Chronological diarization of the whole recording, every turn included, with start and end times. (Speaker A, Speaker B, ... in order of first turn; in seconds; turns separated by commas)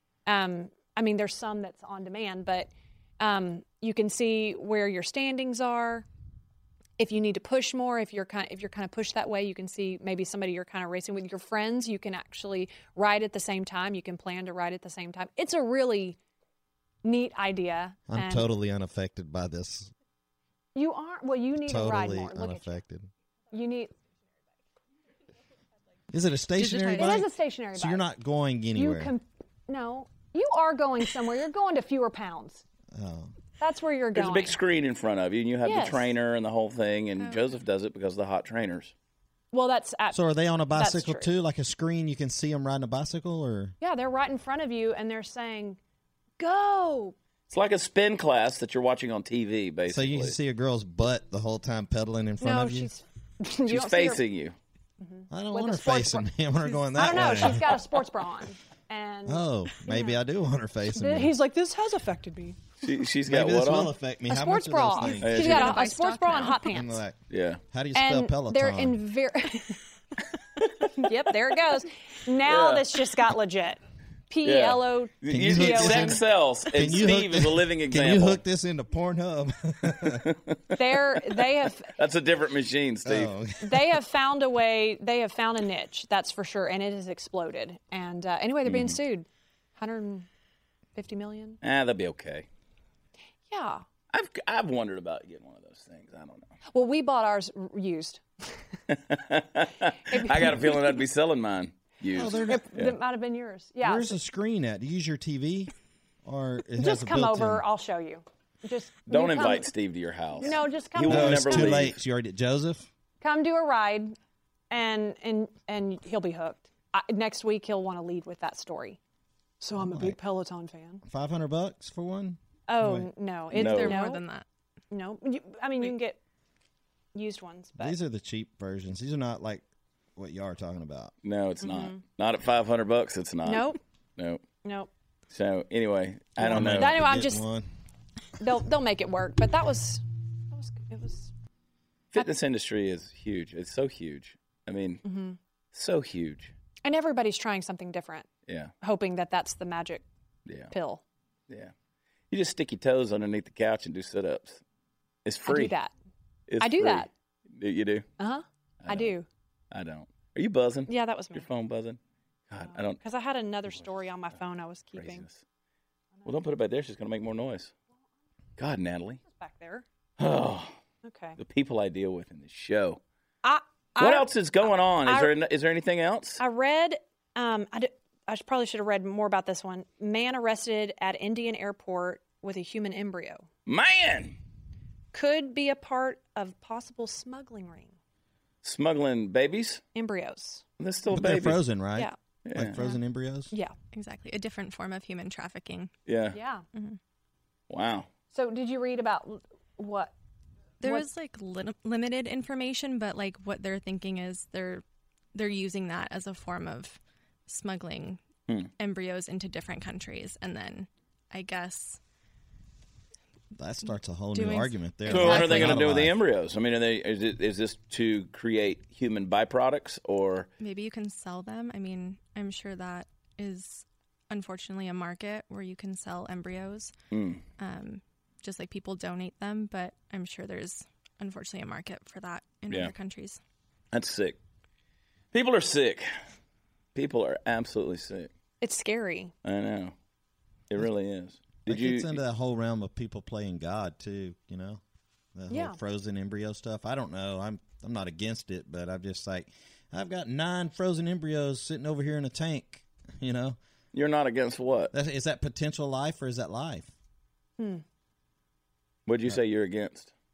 Speaker A: 0.2-6.0, Speaker A: 7.0-16.2, Speaker A: 17.0-18.5, Speaker B: 18.1-19.9, Speaker A: 20.7-22.8, Speaker B: 21.6-23.1, Speaker A: 23.5-23.9, Speaker B: 26.1-29.1, Speaker C: 26.6-27.2, Speaker A: 26.9-28.0, Speaker A: 28.7-32.6, Speaker B: 32.9-33.3, Speaker A: 33.6-34.6, Speaker D: 34.1-38.9, Speaker A: 35.6-36.0, Speaker A: 39.5-40.2, Speaker B: 40.1-43.7, Speaker A: 40.7-41.3, Speaker A: 43.8-45.8, Speaker A: 46.4-47.1, Speaker D: 47.5-50.4, Speaker B: 49.9-52.9, Speaker A: 52.4-54.2, Speaker D: 53.7-54.5, Speaker A: 55.0-60.2, Speaker B: 55.3-57.8, Speaker B: 59.3-61.3, Speaker A: 60.9-62.6, Speaker D: 62.8-63.9, Speaker B: 63.3-65.8, Speaker A: 64.3-67.0, Speaker C: 65.1-66.8, Speaker D: 65.2-65.8, Speaker B: 66.7-69.0, Speaker D: 67.3-67.6, Speaker A: 67.9-69.8, Speaker D: 70.6-71.1, Speaker A: 70.9-76.2, Speaker D: 72.5-73.0, Speaker D: 74.4-78.4, Speaker B: 75.3-76.2, Speaker B: 76.7-80.3, Speaker D: 80.0-83.3, Speaker A: 80.7-81.9, Speaker B: 83.0-84.0, Speaker A: 83.6-90.3, Speaker D: 88.7-89.0, Speaker A: 90.9-91.6, Speaker D: 91.6-92.4, Speaker A: 93.5-93.8, Speaker D: 94.1-96.5, Speaker A: 96.7-98.6, Speaker D: 98.9-103.0, Speaker A: 100.1-100.8, Speaker B: 102.1-102.7, Speaker A: 102.4-104.2, Speaker B: 103.8-105.7, Speaker B: 106.2-107.6, Speaker A: 106.8-109.7, Speaker D: 109.1-112.0, Speaker A: 110.4-111.9, Speaker B: 111.1-112.9, Speaker A: 113.2-114.2, Speaker A: 114.7-119.0, Speaker A: 119.6-121.0, Speaker B: 119.8-120.2, Speaker B: 121.0-123.1, Speaker A: 122.7-124.2, Speaker C: 123.5-124.4, Speaker D: 123.5-124.0, Speaker A: 124.9-126.2, Speaker A: 127.1-128.0, Speaker B: 127.8-129.6, Speaker B: 130.2-131.1, Speaker D: 131.2-134.4, Speaker A: 131.6-132.0, Speaker A: 133.4-133.8, Speaker A: 134.6-134.9, Speaker D: 135.3-137.0, Speaker A: 136.4-137.4, Speaker B: 136.4-137.7, Speaker A: 138.4-141.3, Speaker D: 142.1-145.0, Speaker A: 145.0-145.4, Speaker D: 145.7-146.5, Speaker A: 146.8-148.3, Speaker D: 148.5-148.7, Speaker A: 148.8-150.0, Speaker D: 150.4-150.7, Speaker A: 150.7-151.0, Speaker D: 152.3-154.6, Speaker D: 155.2-155.7, Speaker A: 155.5-155.9, Speaker D: 156.5-158.1, Speaker A: 156.6-157.1, Speaker A: 158.2-159.3, Speaker D: 158.8-159.1, Speaker D: 159.7-162.0, Speaker A: 160.9-161.5, Speaker D: 162.5-163.0, Speaker A: 162.7-165.2, Speaker D: 164.9-165.4, Speaker D: 166.2-167.7, Speaker D: 168.6-169.2, Speaker A: 169.3-169.8, Speaker D: 170.2-170.7, Speaker A: 171.0-171.4, Speaker D: 171.4-173.0, Speaker A: 173.4-174.3, Speaker D: 174.0-176.4, Speaker A: 175.0-175.3, Speaker A: 176.4-183.5, Speaker D: 183.7-184.3, Speaker A: 185.1-187.9, Speaker D: 188.6-189.8, Speaker A: 189.9-190.6, Speaker D: 190.8-191.6, Speaker B: 191.1-193.5, Speaker D: 192.4-192.8, Speaker C: 193.9-195.9, Speaker D: 196.1-196.4, Speaker A: 196.3-196.6, Speaker D: 197.7-198.1, Speaker A: 198.3-200.1, Speaker C: 200.8-204.8, Speaker C: 205.3-208.2, Speaker C: 208.8-212.0, Speaker B: 213.5-216.2, Speaker C: 214.3-215.8, Speaker D: 215.1-220.5, Speaker C: 220.6-226.9, Speaker D: 227.1-227.4, Speaker C: 227.6-233.4, Speaker D: 233.9-234.4, Speaker D: 235.3-236.1, Speaker D: 236.9-238.3, Speaker A: 238.6-239.3, Speaker D: 239.4-239.9, Speaker D: 240.7-242.2, Speaker B: 241.7-244.8, Speaker B: 245.3-253.6, Speaker A: 245.5-245.8, Speaker D: 253.9-254.9, Speaker B: 254.9-256.9, Speaker A: 257.6-257.8, Speaker D: 259.1-260.1